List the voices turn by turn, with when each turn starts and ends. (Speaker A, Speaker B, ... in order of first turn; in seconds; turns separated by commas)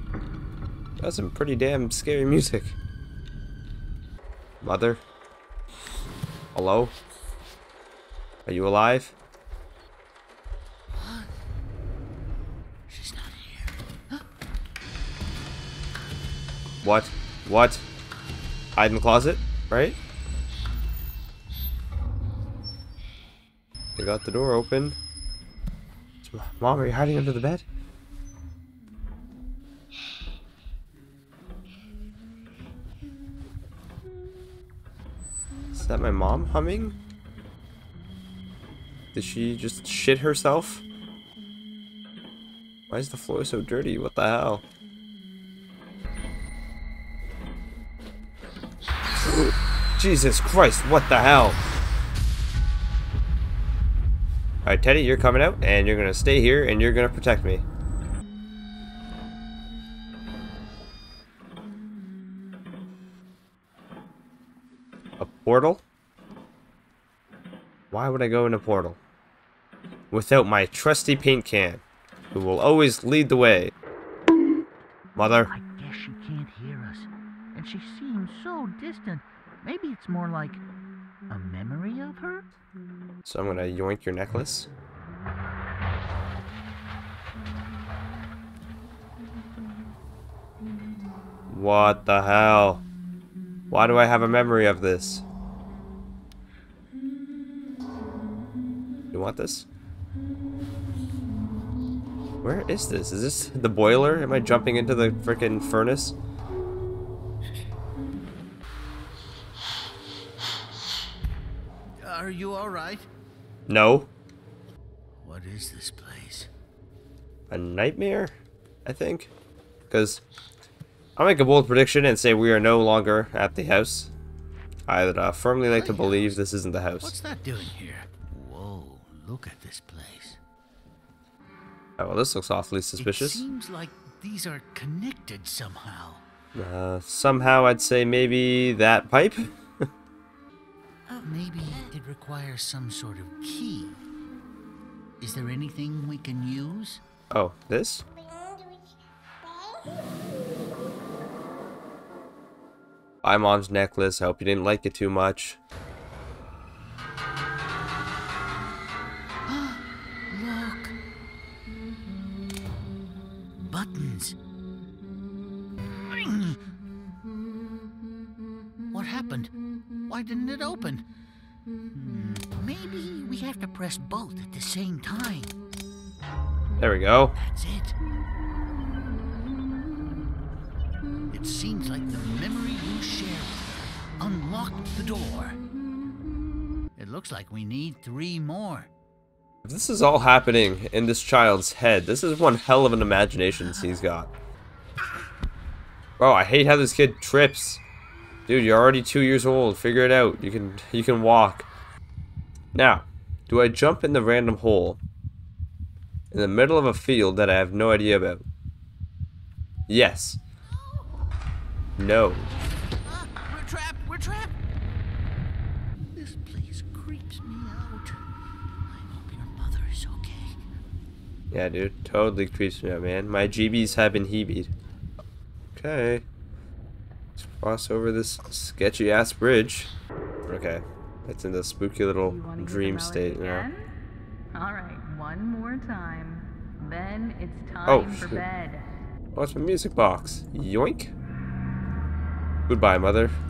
Speaker A: 1.0-2.8, Speaker A: 4.6-5.0, Speaker A: 6.5-6.9, Speaker A: 8.4-9.2, Speaker B: 10.9-11.3, Speaker B: 12.9-14.2, Speaker A: 16.8-17.8, Speaker A: 18.8-20.0, Speaker A: 23.9-25.0, Speaker A: 26.2-27.6, Speaker A: 35.7-37.0, Speaker A: 39.1-40.8, Speaker A: 42.9-44.6, Speaker A: 50.0-51.6, Speaker A: 54.6-57.6, Speaker A: 65.2-65.8, Speaker A: 67.9-69.0, Speaker A: 70.1-73.7, Speaker A: 75.2-75.5, Speaker B: 75.5-80.6, Speaker B: 81.3-82.5, Speaker A: 83.2-84.7, Speaker A: 91.5-92.8, Speaker A: 93.7-95.2, Speaker A: 99.1-99.7, Speaker A: 102.4-106.2, Speaker B: 112.0-113.1, Speaker A: 113.7-114.1, Speaker B: 115.2-116.5, Speaker A: 117.5-119.3, Speaker A: 119.9-120.2, Speaker A: 121.2-124.1, Speaker A: 124.9-127.2, Speaker B: 125.7-126.4, Speaker B: 127.0-130.4, Speaker A: 132.0-133.4, Speaker B: 133.0-136.2, Speaker A: 136.5-139.8, Speaker B: 141.1-144.0, Speaker B: 145.2-147.0, Speaker A: 147.3-148.0, Speaker A: 153.2-155.6, Speaker B: 159.5-160.9, Speaker B: 163.6-164.3, Speaker B: 166.1-166.6, Speaker B: 168.9-169.5, Speaker B: 170.1-171.1, Speaker B: 171.9-175.6, Speaker A: 176.8-177.3, Speaker B: 177.3-177.9, Speaker B: 181.3-185.6, Speaker B: 186.9-188.9, Speaker A: 189.6-194.3, Speaker A: 196.2-197.8, Speaker A: 198.5-201.7, Speaker A: 202.7-205.0, Speaker A: 206.3-208.4, Speaker A: 209.9-210.4, Speaker A: 212.0-212.5, Speaker B: 213.0-214.5, Speaker B: 216.1-218.1, Speaker B: 218.8-220.6, Speaker A: 221.5-224.7, Speaker A: 225.7-226.2, Speaker A: 227.4-229.9, Speaker A: 230.4-233.7, Speaker C: 232.2-233.9, Speaker C: 234.5-238.9, Speaker A: 237.8-238.4, Speaker A: 239.3-241.1, Speaker A: 242.7-243.4